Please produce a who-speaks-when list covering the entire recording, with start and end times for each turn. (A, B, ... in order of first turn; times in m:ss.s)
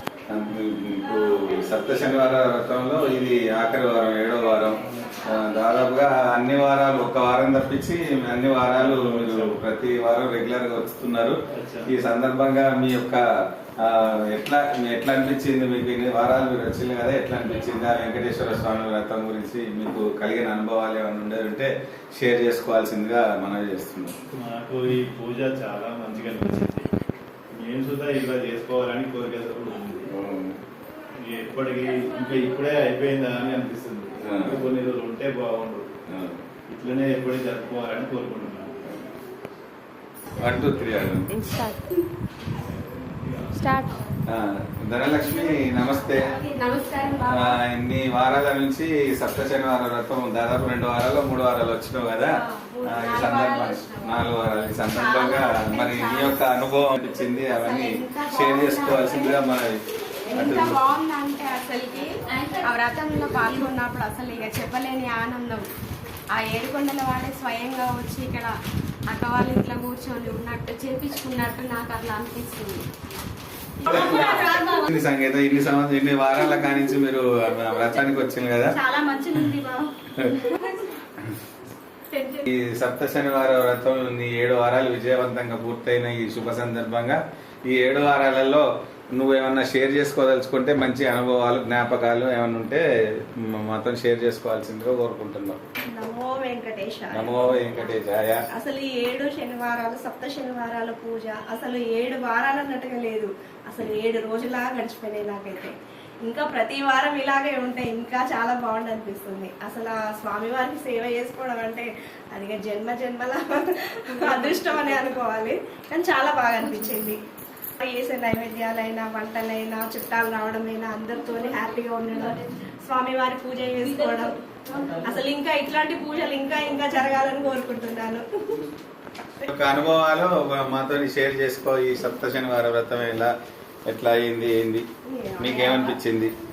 0:00.3-0:13.2 A
0:08.8-0:09.6 B
0:11.5-0:11.9 B
0:13.8-0:24.1 A
0:24.3-0:26.9 B
0:27.5-0:30.1 B
0:30.1-0:30.5 A
0:31.2-0:36.0 B
0:34.2-0:34.6 A
0:36.1-0:36.4 A
0:36.7-0:38.8 B
0:40.4-0:41.3 A
0:41.3-0:41.8 C
0:42.6-0:43.6 B
0:43.6-0:44.0 C
0:44.3-0:46.3 A
0:46.2-0:47.6 C
0:47.2-0:59.7 A
0:52.4-0:54.3 C
0:54.9-0:56.4 C
0:57.6-0:59.4 C
1:00.3-1:05.7 C
1:00.3-1:00.8 A
1:01.0-1:01.7 D
1:03.3-1:03.7 D
1:06.3-1:08.6 C
1:09.1-1:12.8 C
1:13.8-1:18.8 A
1:13.9-1:14.4 D
1:13.9-1:14.8 C
1:18.8-1:19.9 C
1:18.8-1:19.8 D
1:20.2-1:20.4 A
1:22.1-1:22.4 D
1:22.4-1:35.6 A
1:35.9-1:57.2 D
1:37.1-1:38.5 A
1:57.8-2:08.6 D
2:09.5-2:13.3 A
2:13.9-2:14.8 A
2:15.1-2:16.0 D
2:15.4-2:16.3 A